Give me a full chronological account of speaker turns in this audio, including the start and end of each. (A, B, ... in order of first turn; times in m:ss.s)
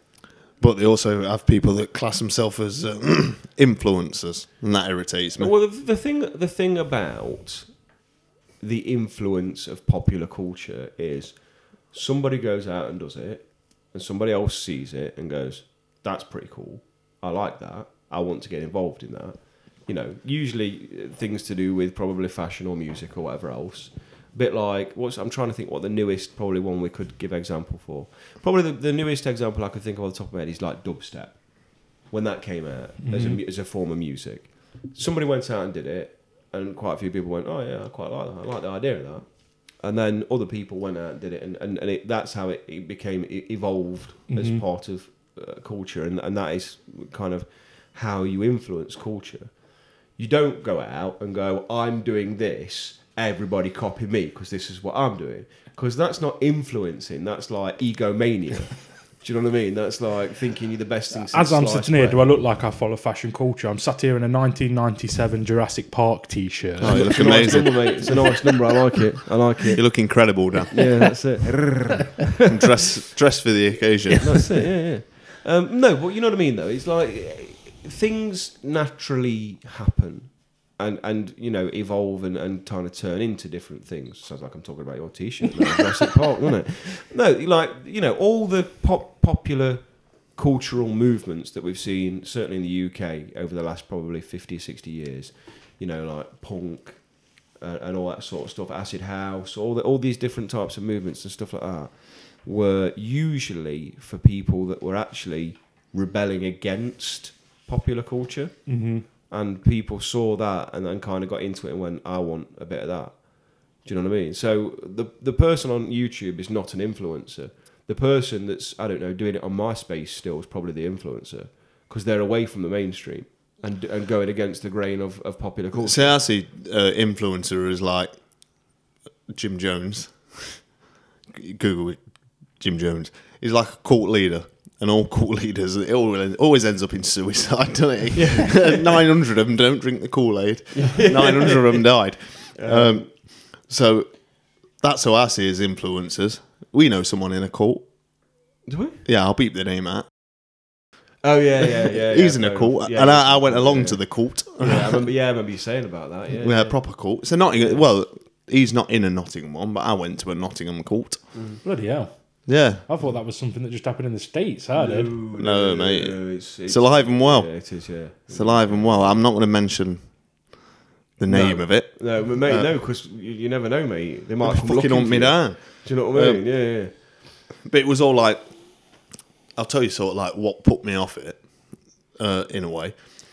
0:00.6-0:05.5 A
0:05.4-0:07.9 B
0:08.6-1:02.3 B
0:33.0-0:33.4 C
0:44.3-0:44.6 C
1:01.3-1:07.6 C
1:06.8-1:08.2 A
1:06.8-1:12.2 B
1:09.8-1:10.8 A
1:12.5-1:14.4 A
1:14.2-2:06.2 B
1:14.3-1:14.6 C
1:48.7-1:49.1 C
2:05.8-2:08.1 A
2:09.3-2:10.6 A
2:11.3-2:27.9 A
2:18.1-2:19.0 B
2:20.8-2:21.9 B
2:22.6-2:23.1 B
2:28.7-2:29.0 B
2:29.0-2:30.1 A
2:31.2-2:36.9 B
2:32.1-2:35.0 A
2:36.4-2:41.3 A
2:37.6-2:37.8 B
2:41.3-2:41.6 B
2:41.6-2:45.2 C
2:42.5-2:42.8 A
2:44.8-2:49.2 B
2:45.4-2:50.1 A
2:51.2-2:52.7 A
2:51.3-2:56.9 B
2:54.4-2:56.5 A
2:57.6-2:58.5 A
2:59.6-3:01.5 A
3:02.1-3:03.0 A